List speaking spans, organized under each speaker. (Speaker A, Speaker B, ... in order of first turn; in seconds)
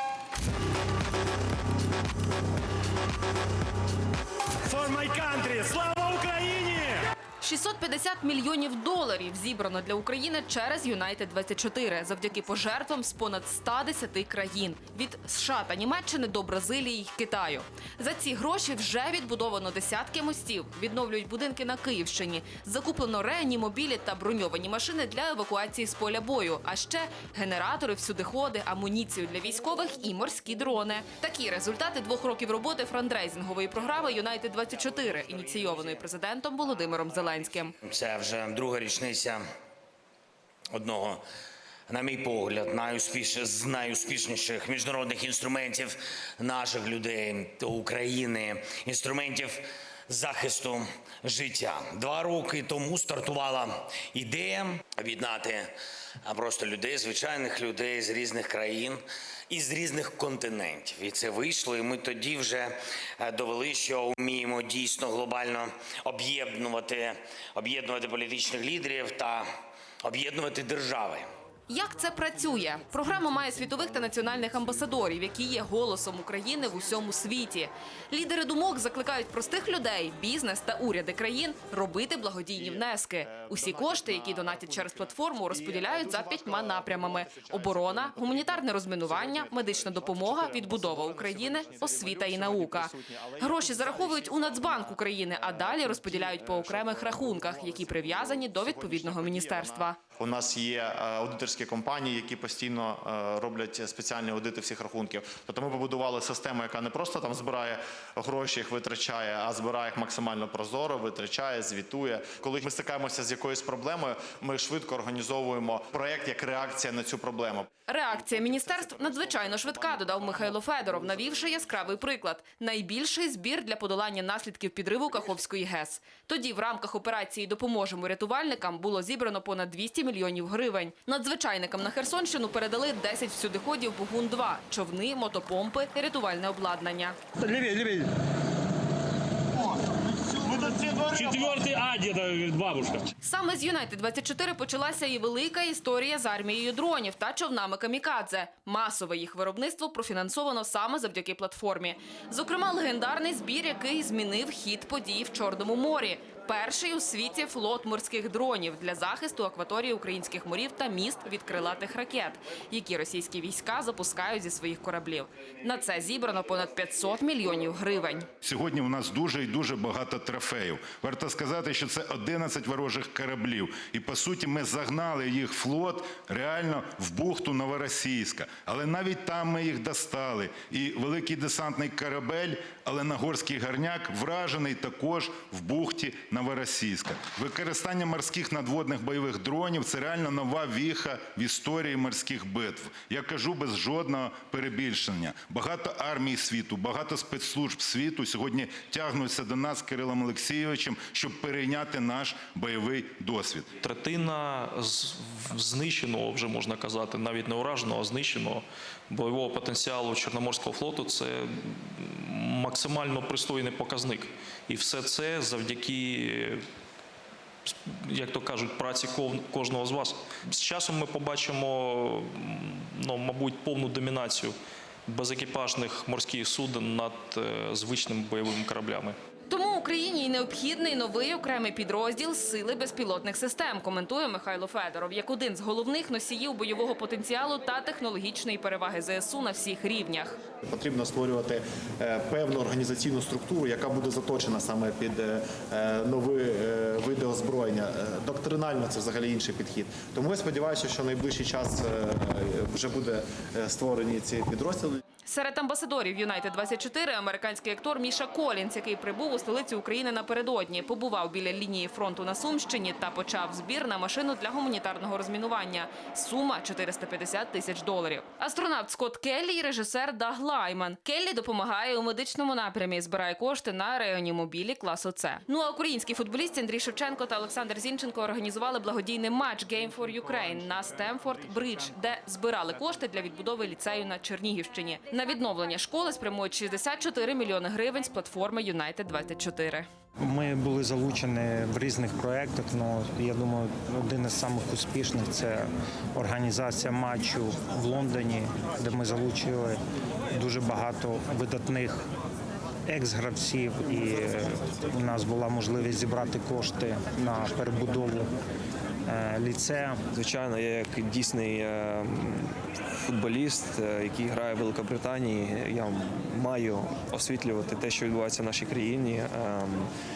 Speaker A: 7.4-37.7, 71.7-100.0, 117.9-137.2, 143.2-168.3, 229.5-240.4, 255.3-289.9
Speaker B: 37.9-39.4, 40.7-41.2, 41.9-55.7, 56.2-69.5, 70.0-71.3
Speaker C: 82.6-121.2, 240.6-255.0
Speaker D: 137.5-137.9, 140.4-143.1
Speaker E: 168.4-203.7
Speaker F: 203.8-216.6, 217.7-224.6, 225.1-229.2
Speaker G: 290.2-299.8, 300.3-302.0, 302.9-308.3, 309.1-310.1
Speaker H: 310.1-319.9